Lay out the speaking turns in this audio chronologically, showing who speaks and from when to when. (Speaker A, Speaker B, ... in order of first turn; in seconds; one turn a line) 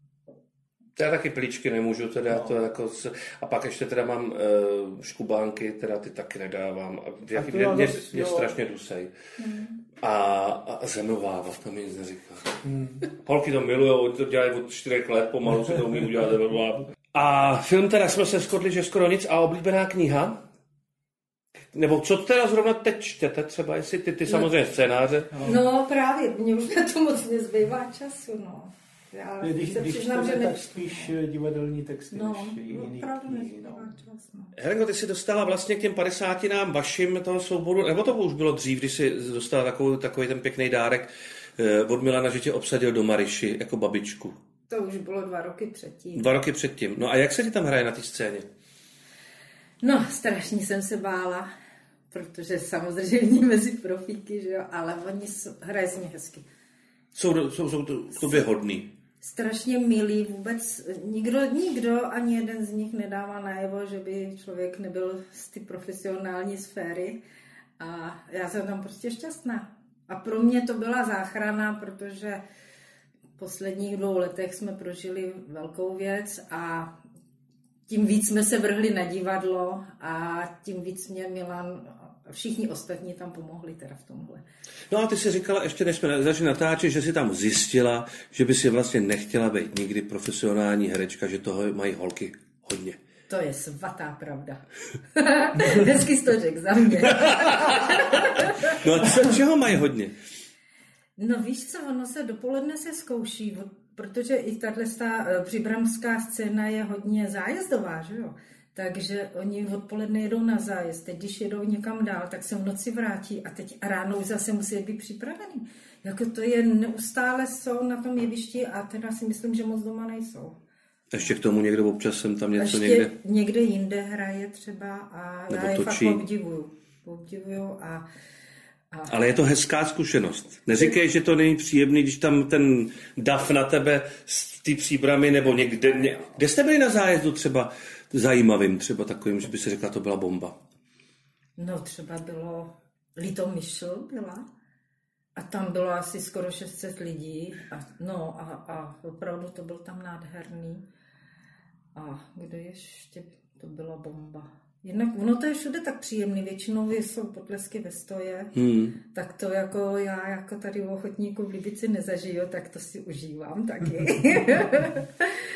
Speaker A: 1.0-9.1
Speaker B: 2.3-2.6
Speaker B: 7.3-8.6
Speaker C: 9.4-9.7
Speaker A: 10.0-20.4
Speaker B: 12.6-13.0
Speaker A: 21.7-25.4
Speaker B: 25.3-25.6
Speaker C: 25.4-31.1
Speaker B: 29.4-33.9
Speaker C: 32.1-34.5
Speaker A: 34.6-44.4
Speaker C: 44.7-46.3
Speaker A: 46.1-48.5
Speaker C: 49.8-51.5
Speaker C: 52.1-56.5
Speaker A: 57.1-58.9
Speaker C: 59.2-67.2
Speaker C: 67.8-72.4
Speaker C: 73.4-76.9
Speaker C: 77.9-84.4
Speaker A: 84.9-93.0
Speaker C: 93.3-94.6
Speaker C: 95.1-98.8
Speaker A: 97.1-100.1
Speaker C: 101.2-120.6
Speaker A: 121.1-123.1
Speaker C: 122.6-128.1
Speaker A: 125.5-126.2
Speaker A: 129.1-140.6
Speaker C: 141.6-144.5
Speaker C: 145.4-150.8
Speaker C: 151.9-158.5
Speaker A: 158.6-159.0
Speaker C: 159.1-165.3